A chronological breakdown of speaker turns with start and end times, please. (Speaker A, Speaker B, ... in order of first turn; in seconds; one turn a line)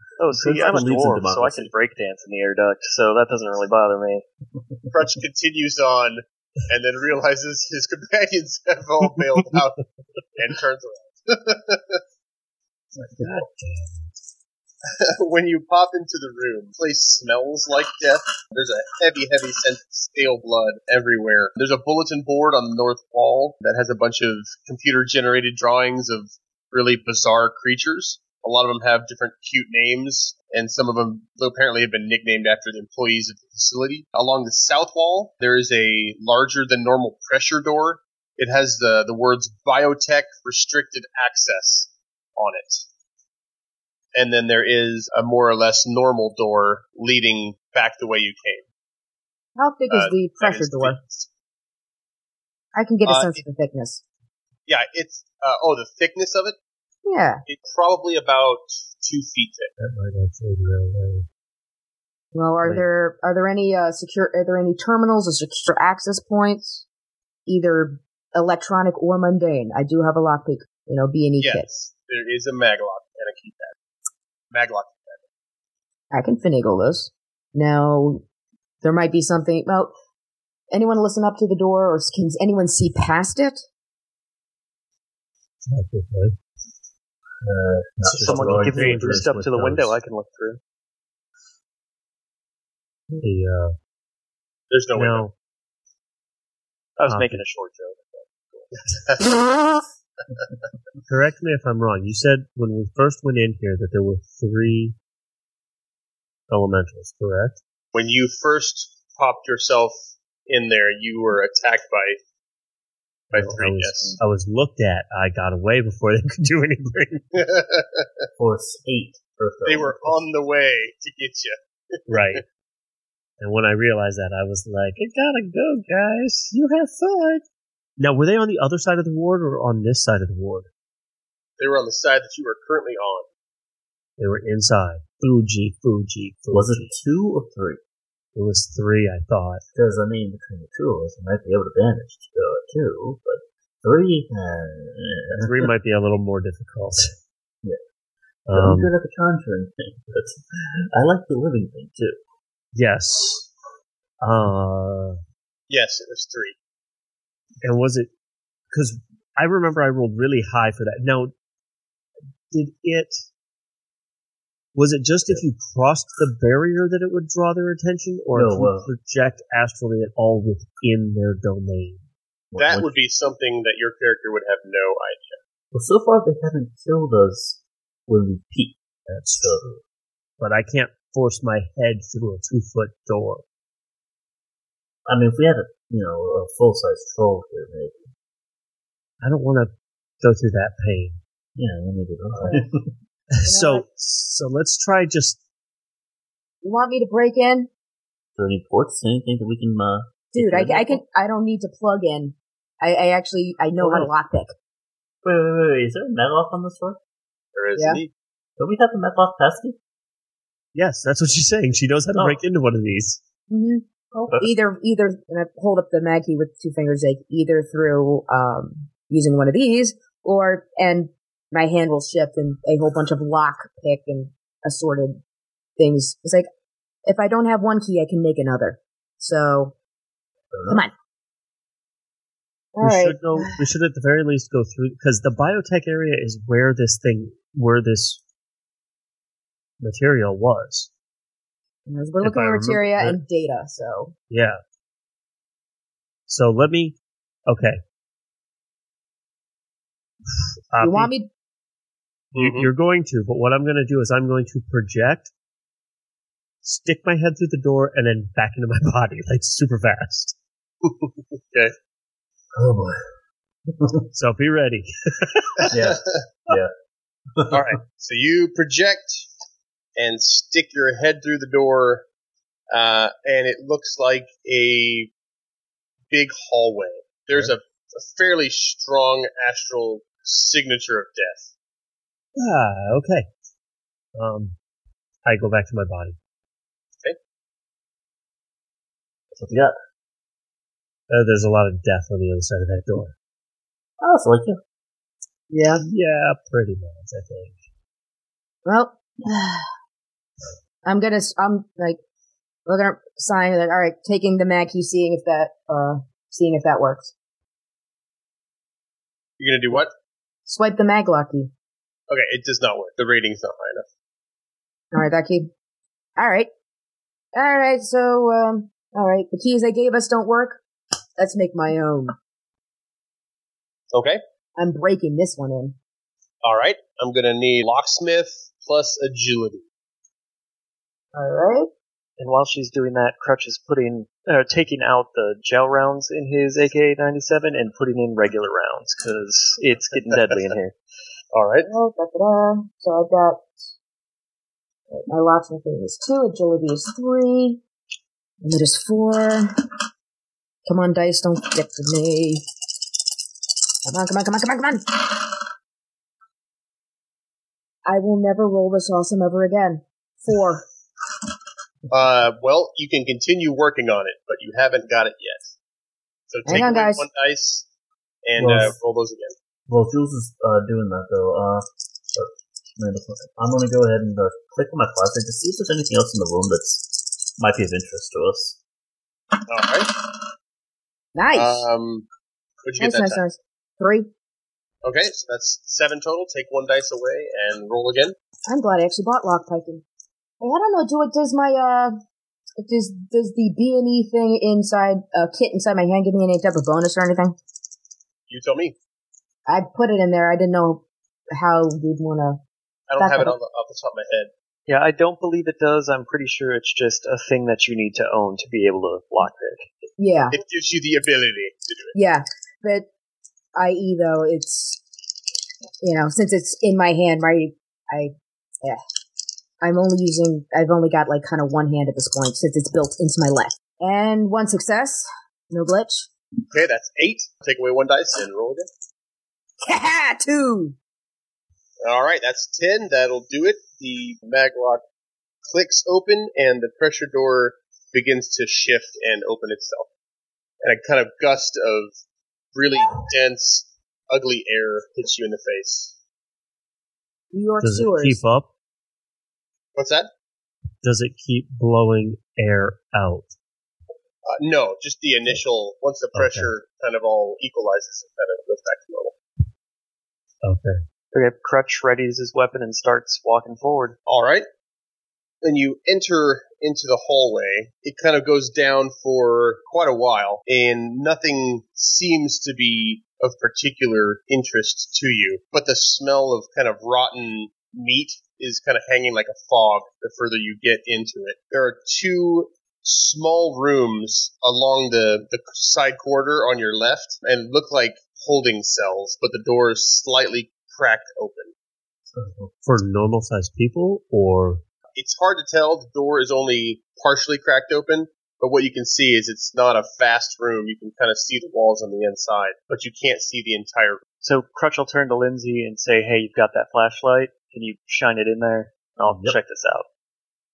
Speaker A: 0.2-4.2
Speaker B: 0.3-1.7
Speaker C: 4.9-9.8
Speaker C: 10.4-12.0
Speaker B: 12.9-13.5
Speaker D: 13.2-14.1
Speaker C: 14.9-42.8
Speaker C: 44.1-48.6
Speaker E: 49.6-51.0
Speaker C: 49.9-51.3
Speaker E: 52.7-54.0
Speaker C: 53.1-53.4
Speaker C: 54.7-56.6
Speaker E: 57.0-57.4
Speaker C: 57.5-59.7
Speaker D: 59.8-61.2
Speaker E: 62.3-66.8
Speaker E: 67.5-71.7
Speaker C: 71.4-73.7
Speaker C: 74.5-75.2
Speaker E: 76.1-78.2
Speaker E: 78.8-79.9
Speaker E: 80.7-83.6
Speaker D: 85.6-86.4
Speaker B: 87.4-89.3
Speaker D: 88.0-90.0
Speaker A: 88.2-90.6
Speaker D: 93.2-93.8
Speaker C: 94.7-95.2
Speaker D: 95.0-95.3
Speaker A: 97.0-98.7
Speaker D: 97.1-97.4
Speaker C: 99.0-99.4
Speaker D: 101.1-105.0
Speaker D: 106.5-107.6
Speaker C: 107.9-112.2
Speaker C: 113.3-114.2
Speaker D: 113.3-117.4
Speaker C: 117.3-118.3
Speaker B: 118.4-120.2
Speaker C: 119.6-122.4
Speaker D: 122.1-122.4
Speaker D: 123.4-127.4
Speaker D: 128.0-130.7
Speaker C: 131.6-133.3
Speaker D: 134.2-136.9
Speaker B: 136.5-137.8
Speaker D: 138.3-139.6
Speaker B: 139.7-145.7
Speaker D: 145.4-147.1
Speaker D: 148.5-148.9
Speaker B: 148.5-152.2
Speaker D: 152.7-153.5
Speaker D: 154.2-155.2
Speaker C: 155.7-156.6
Speaker D: 157.6-158.1
Speaker D: 158.7-161.3
Speaker D: 162.5-163.2
Speaker D: 164.8-172.0
Speaker B: 168.3-168.9
Speaker B: 172.5-172.9
Speaker C: 172.6-175.4
Speaker B: 175.7-178.8
Speaker D: 179.1-179.6
Speaker B: 179.4-179.8
Speaker D: 180.4-183.4
Speaker B: 185.1-188.1
Speaker D: 189.2-191.2
Speaker B: 191.6-192.9
Speaker D: 193.4-195.4
Speaker E: 193.4-193.9
Speaker E: 196.6-197.7
Speaker B: 198.4-201.0
Speaker E: 200.3-204.5
Speaker D: 203.8-204.1
Speaker B: 205.2-207.0
Speaker C: 207.6-208.1
Speaker E: 207.8-208.0
Speaker B: 208.6-209.8
Speaker D: 210.8-213.2
Speaker E: 213.5-225.2
Speaker E: 225.8-226.5
Speaker E: 227.1-229.7
Speaker B: 230.5-230.8
Speaker E: 232.8-233.7
Speaker D: 232.8-238.2
Speaker D: 239.8-240.9
Speaker E: 241.9-244.1
Speaker D: 242.2-243.2
Speaker D: 244.3-244.6
Speaker D: 246.3-246.9
Speaker D: 247.5-247.8
Speaker D: 250.7-251.1
Speaker E: 250.8-251.3
Speaker C: 252.3-252.7
Speaker D: 252.3-255.3
Speaker D: 256.6-260.4
Speaker C: 260.8-261.7
Speaker B: 262.6-263.1
Speaker B: 263.7-264.1
Speaker D: 264.1-265.7
Speaker B: 265.7-266.7
Speaker C: 265.7-266.2
Speaker B: 267.3-267.7
Speaker C: 267.5-269.3
Speaker C: 269.9-272.1
Speaker C: 272.7-275.1
Speaker C: 276.1-281.5
Speaker D: 282.4-283.3
Speaker D: 284.1-284.6
Speaker D: 285.2-286.1
Speaker B: 289.3-289.8
Speaker D: 291.1-293.1
Speaker B: 294.0-294.6
Speaker E: 295.5-295.9
Speaker D: 295.9-297.6
Speaker E: 298.6-299.7
Speaker E: 300.9-302.0
Speaker E: 302.6-307.1
Speaker C: 309.4-309.9
Speaker E: 310.5-311.5
Speaker C: 312.1-313.9
Speaker E: 314.9-315.5
Speaker E: 316.2-316.5
Speaker E: 317.3-320.6
Speaker E: 321.2-322.1
Speaker C: 323.9-324.2
Speaker E: 324.6-325.8
Speaker C: 326.4-329.6
Speaker E: 331.1-331.7
Speaker A: 332.2-340.8
Speaker C: 340.1-340.4
Speaker C: 341.3-341.7
Speaker E: 341.6-343.6
Speaker E: 344.9-347.6
Speaker E: 348.4-349.6
Speaker E: 350.6-352.4
Speaker E: 353.9-355.3
Speaker E: 357.9-360.6
Speaker C: 361.9-365.5
Speaker C: 366.3-367.6
Speaker E: 366.4-367.1
Speaker C: 368.2-369.4
Speaker B: 368.4-368.8
Speaker B: 369.7-378.6
Speaker C: 379.4-380.0
Speaker E: 381.1-381.6
Speaker C: 381.4-382.1
Speaker C: 382.6-383.2
Speaker E: 382.8-384.1
Speaker C: 384.8-388.1
Speaker E: 388.5-389.8
Speaker E: 390.4-392.0
Speaker E: 392.6-397.4
Speaker C: 398.3-398.8
Speaker E: 399.5-402.4
Speaker C: 402.9-404.3
Speaker E: 403.0-403.4
Speaker A: 404.7-409.7
Speaker E: 410.0-410.4
Speaker C: 410.3-411.9
Speaker E: 411.9-412.9
Speaker E: 413.6-414.8
Speaker E: 415.8-418.8
Speaker E: 419.6-426.1
Speaker C: 426.5-428.7
Speaker E: 429.6-430.8
Speaker C: 431.8-434.8
Speaker C: 435.4-439.9
Speaker C: 440.6-441.9
Speaker C: 442.5-445.9
Speaker E: 447.3-448.2
Speaker D: 447.6-448.5
Speaker C: 449.8-450.1
Speaker D: 450.8-453.3
Speaker C: 454.3-459.1
Speaker D: 456.1-456.5
Speaker D: 460.4-460.8
Speaker A: 461.1-464.0
Speaker C: 464.1-464.5
Speaker C: 465.4-491.5
Speaker B: 492.1-492.5
Speaker D: 492.6-494.6
Speaker C: 494.9-504.0
Speaker A: 504.2-509.9
Speaker B: 509.1-509.4